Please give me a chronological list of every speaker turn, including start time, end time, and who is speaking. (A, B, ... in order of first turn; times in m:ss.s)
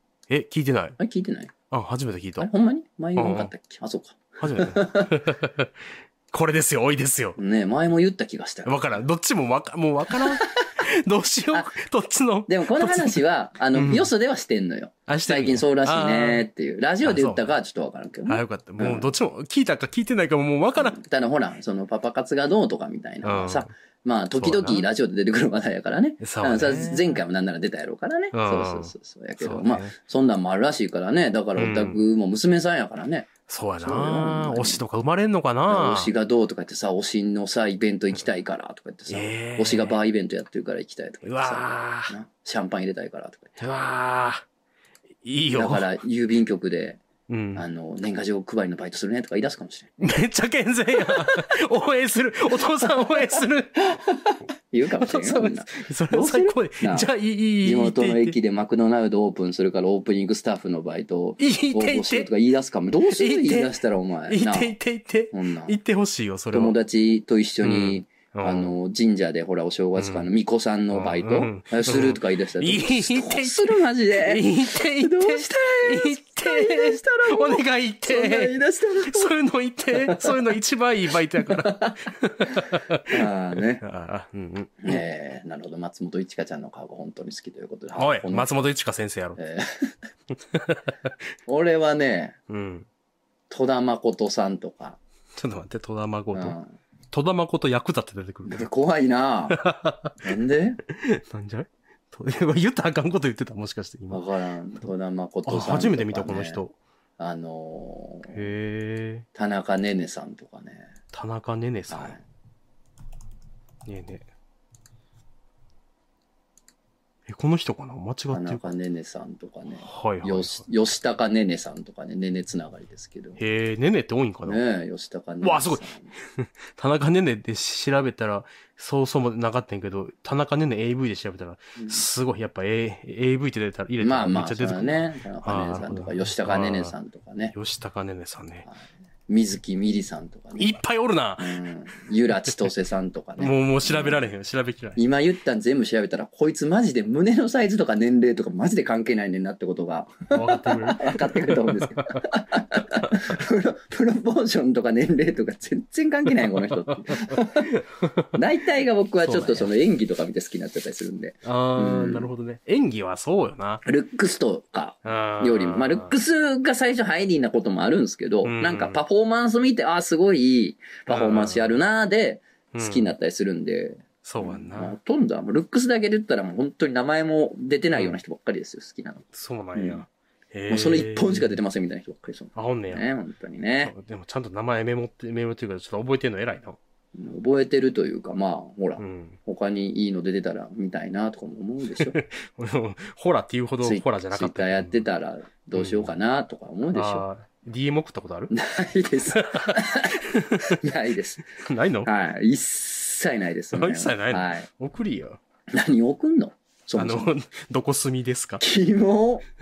0:00.3-0:01.0 A
0:01.0-0:01.5 B
0:01.7-0:02.5 A
0:02.4-0:05.1 B
0:03.2-0:03.5 A
0:04.4-0:07.4 A
0:07.4-0:09.0 B
0:08.6-0:13.2 A
0:12.5-0:19.1 B
0:13.7-0:14.1 A
0:15.1-0:16.5 A
0:17.0-0:17.4 A
0:18.3-0:21.0 A
0:20.8-0:33.3 B
0:23.2-0:23.7 A
0:24.4-0:24.9 A
0:26.2-0:27.2 A
0:28.3-0:29.9 A
0:31.6-0:32.0 A
0:33.5-0:36.1 A
0:33.8-0:34.8 B
0:35.7-0:43.6 B
0:39.1-0:40.0 A
0:41.2-0:42.1 A
0:43.6-0:44.4 A
0:45.2-0:45.9 A
0:45.5-0:47.0 B
0:47.3-0:47.6 A
0:47.5-0:49.9 B
0:50.0-0:53.8 A
0:51.0-0:51.4 B
0:52.8-0:53.4 B
0:53.9-0:57.1 B
0:55.0-0:58.4 A
0:57.6-1:04.8 B
1:01.4-1:02.3 A
1:03.1-1:03.7 A
1:04.3-1:06.8 A
1:05.3-1:05.8 B
1:06.5-1:19.3 B
1:07.6-1:08.8 A
1:10.0-1:10.3 A
1:10.9-1:25.0 A
1:19.9-1:20.3 B
1:21.4-1:23.8 B
1:24.8-1:28.6 B
1:28.0-1:29.4 A
1:29.4-1:29.9 B
1:30.5-1:30.8 A
1:31.5-1:32.4 B
1:32.5-1:32.9 A
1:33.5-1:35.0 B
1:35.4-1:36.6 A
1:36.3-1:36.8 B
1:37.1-1:38.7 A
1:38.5-1:39.6 B
1:39.5-1:40.3 A
1:40.2-1:40.8 B
1:40.9-1:44.2 A
1:44.1-1:46.6 B
1:45.4-1:46.8 A
1:47.2-1:48.4 B
1:48.3-1:49.2 A
1:49.3-1:50.9 B
1:51.1-1:52.2 A
1:51.9-1:52.2 B
1:53.8-1:54.2 A
1:57.3-1:58.6 A
1:58.3-2:03.4 B
1:59.8-2:00.6 A
2:03.4-2:04.6 A
2:04.4-2:06.1 B
2:05.4-2:16.9 A
2:11.8-2:12.0 B
2:14.0-2:17.5 B
2:17.5-2:18.7 A
2:18.6-2:20.8 B
2:20.6-2:21.6 A
2:21.4-2:24.2 B
2:23.4-2:25.0 A
2:25.0-2:37.7 B
2:30.3-2:32.2 A
2:32.9-2:33.3 A
2:36.3-2:38.3 A
2:38.3-2:42.3 B
2:39.2-2:39.7 A
2:41.4-2:43.8 A
2:43.8-3:00.0 B
2:45.0-2:46.1 A
2:48.4-2:49.0 A
2:51.1-2:51.8 A
2:52.7-2:53.1 A
2:54.2-2:54.9 A
2:57.9-2:58.2 A
2:59.3-3:01.6 A
3:00.7-3:03.9 B
3:02.5-3:03.0 A
3:03.8-3:06.8 A
3:07.1-3:12.2 B
3:09.0-3:09.4 A
3:11.9-3:15.0 A
3:13.8-3:17.2 B
3:15.8-3:16.1 A
3:16.9-3:18.5 A
3:18.5-3:21.4 B
3:19.3-3:20.8 A
3:21.6-3:22.1 A
3:22.0-3:24.7 B
3:23.7-3:25.4 A
3:25.7-3:27.3 B
3:26.9-3:28.6 A
3:28.6-3:29.4 B